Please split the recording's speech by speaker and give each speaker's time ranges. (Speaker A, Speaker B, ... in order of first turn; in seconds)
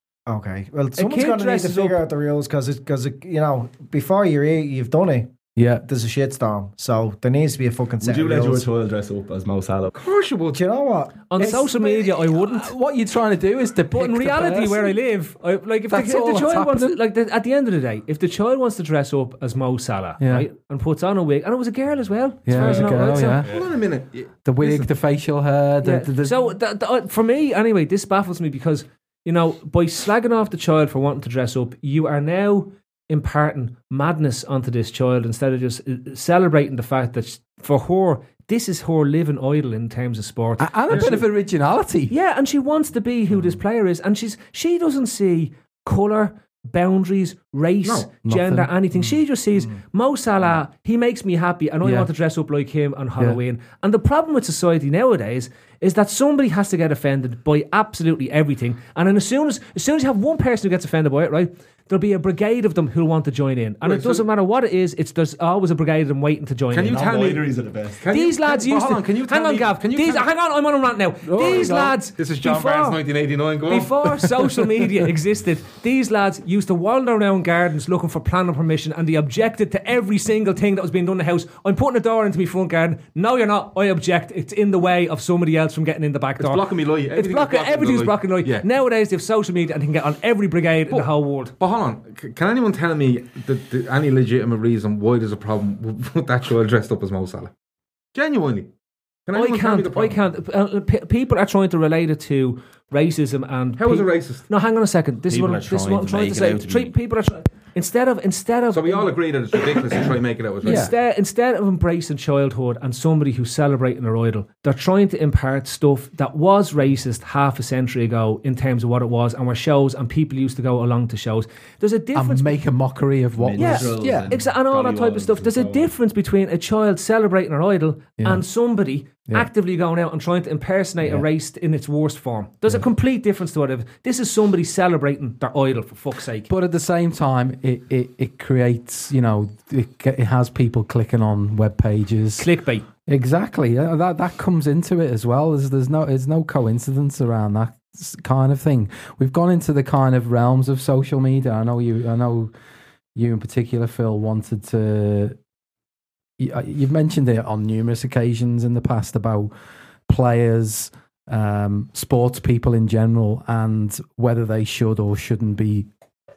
Speaker A: 0.3-8.7, 10.5-11.9
Speaker B: 0.9-2.0, 11.3-12.7, 13.9-23.4, 25.8-41.2, 42.1-67.1, 68.1-73.0, 73.7-91.5, 99.3-109.1, 110.6-122.6, 123.6-136.5, 142.4-142.8
Speaker C: 5.5-5.8, 11.4-15.0, 15.9-17.0, 20.2-20.5, 22.4-23.6, 24.4-26.5, 40.6-42.1, 48.2-48.7, 51.8-52.1, 71.3-72.0, 110.6-110.9, 122.1-124.4, 128.2-128.4, 136.5-142.5, 143.1-152.5, 153.1-155.4, 156.4-159.5, 160.1-165.9
Speaker D: 8.0-9.9, 66.8-68.0, 105.3-106.9, 123.4-125.9
Speaker E: 9.9-10.6, 22.5-24.9, 47.8-48.1, 63.8-64.2, 66.7-70.3, 71.5-74.2, 86.4-88.7, 90.9-97.5, 98.1-98.7, 99.3-100.2, 103.8-104.4, 108.7-110.9